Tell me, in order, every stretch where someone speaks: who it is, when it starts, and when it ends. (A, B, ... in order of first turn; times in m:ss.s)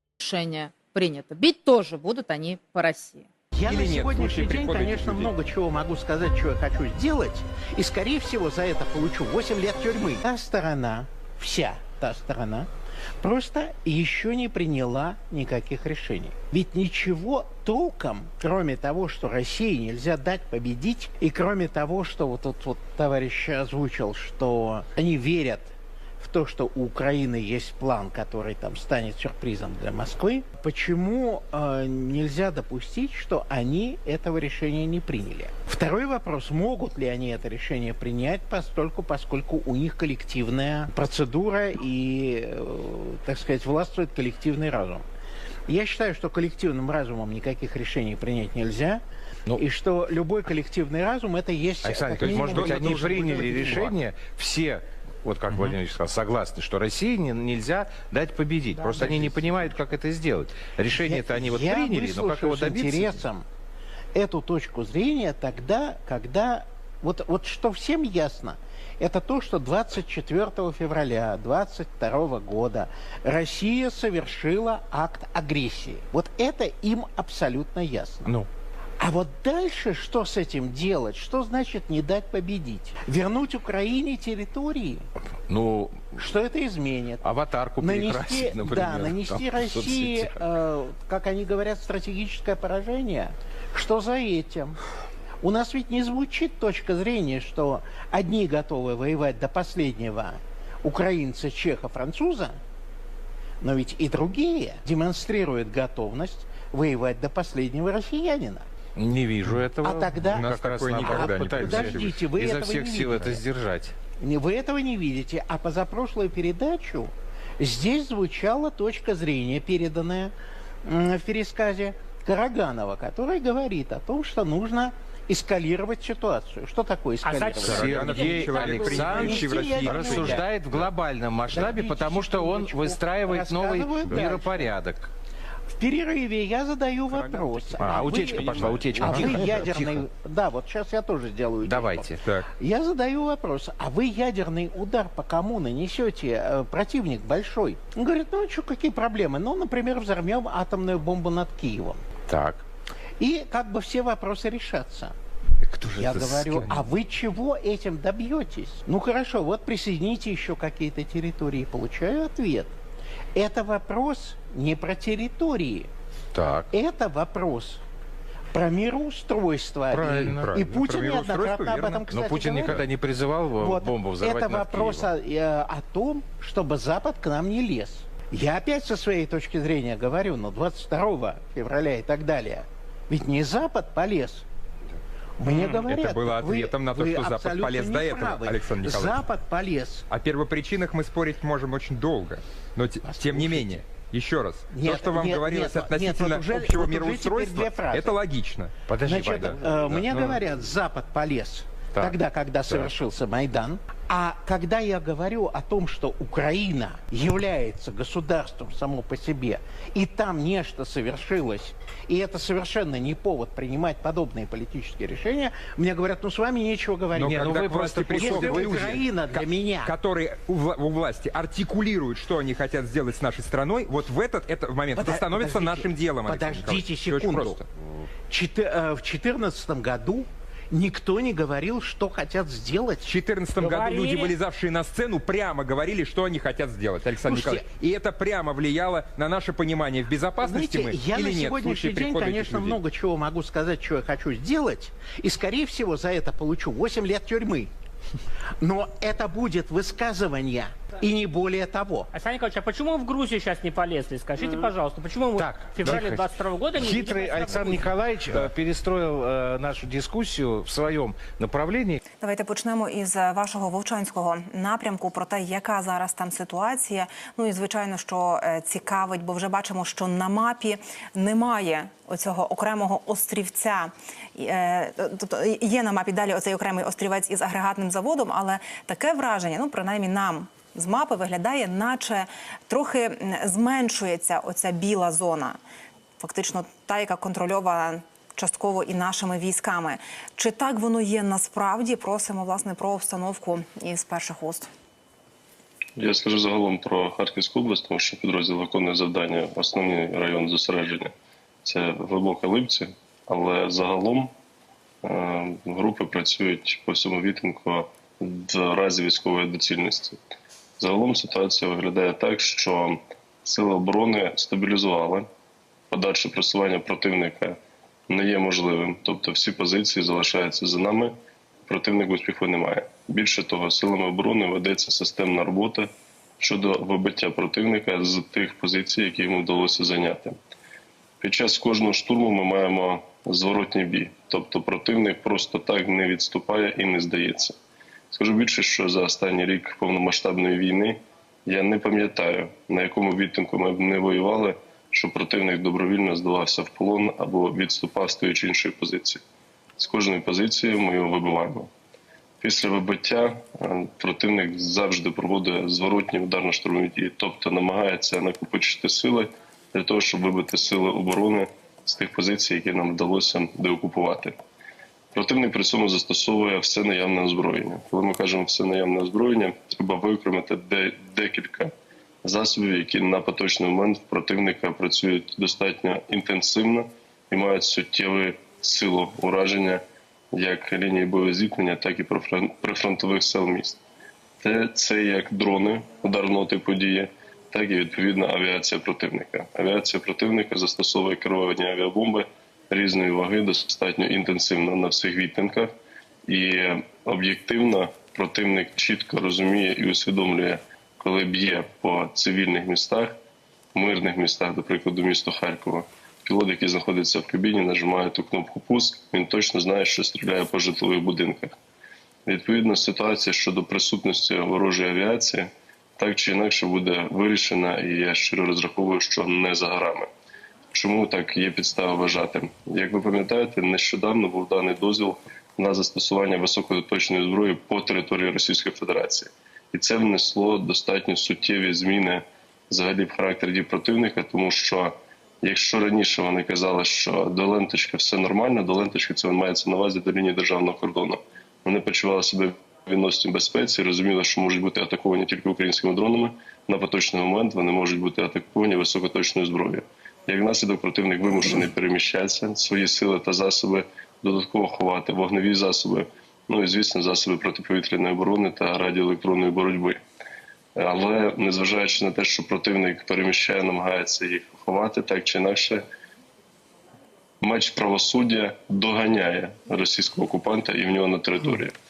0:00.2-0:03.3 A
0:03.5-0:12.7 B
0:03.7-0:05.3 C
0:13.2-0:45.0 B
0:45.7-0:49.0 B
0:49.5-0:53.9 B
0:51.8-1:03.2 D
0:52.3-0:53.8 C
1:01.0-1:03.5 B
1:04.1-1:18.3 B
1:19.0-1:25.1 B
1:25.5-1:26.2 D
1:26.2-1:34.8 B
1:27.2-1:30.3 D
1:35.4-1:42.6 B
1:43.6-1:48.7 B
1:49.0-1:54.0 D
1:49.8-1:53.4 B
1:50.4-1:52.2 C
1:54.2-2:10.5 B
2:07.3-2:07.7 E
2:07.6-2:10.8 C
2:07.7-2:15.1 D
2:11.5-2:14.7 B
2:15.7-2:32.0 B
2:17.1-2:19.5 C
2:17.8-2:20.0 D
2:21.6-2:22.2 D
2:32.3-2:32.6 D
2:33.2-2:35.2 B
2:35.6-2:36.8 D
2:35.9-2:42.7 B
2:43.4-2:45.9 B
2:46.3-2:46.7 D
2:46.7-2:47.8 B
2:48.5-2:52.8 B
2:49.9-2:50.5 D
2:50.1-2:52.0 C
2:52.1-2:55.1 D
2:53.6-3:04.4 B
3:05.4-3:10.1 B
3:05.5-3:09.3 C
3:10.1-3:18.7 C
3:13.0-3:13.8 B
3:14.7-3:18.1 B
3:18.9-3:19.9 D
3:19.0-3:37.5 B
3:19.4-3:20.4 C
3:37.2-3:47.7 C
3:37.2-3:39.0 D
3:38.2-3:39.9 B
3:45.0-3:47.6 B
3:48.3-3:53.2 B
3:53.1-4:02.8 C
3:53.6-3:54.3 E
3:57.2-3:57.6 B
4:00.4-4:07.7 B
4:08.6-4:12.1 B
4:12.2-4:17.8 E
4:15.4-4:22.0 D
4:22.2-4:45.6 F
4:46.2-4:54.7 F
4:56.0-5:01.1 G
5:01.6-5:04.3 G
5:05.0-5:10.2 G
5:10.8-5:15.3 G
5:15.9-5:17.6 G
5:18.1-5:21.1 G
5:21.7-5:25.9 G
5:26.4-5:30.4 G
5:31.2-5:37.6 G
5:38.1-5:49.2 G
5:49.8-5:51.7 G
5:52.4-6:04.4 G
6:05.2-6:11.7 G
6:12.2-6:19.8 G
6:20.3-6:23.8 G
6:24.4-6:35.7 G
6:36.3-6:43.2 G
6:43.8-6:51.6 G
6:52.3-7:00.1 G
7:00.7-7:40.0 G
7:40.8-7:45.8 G
7:47.4-7:51.8 G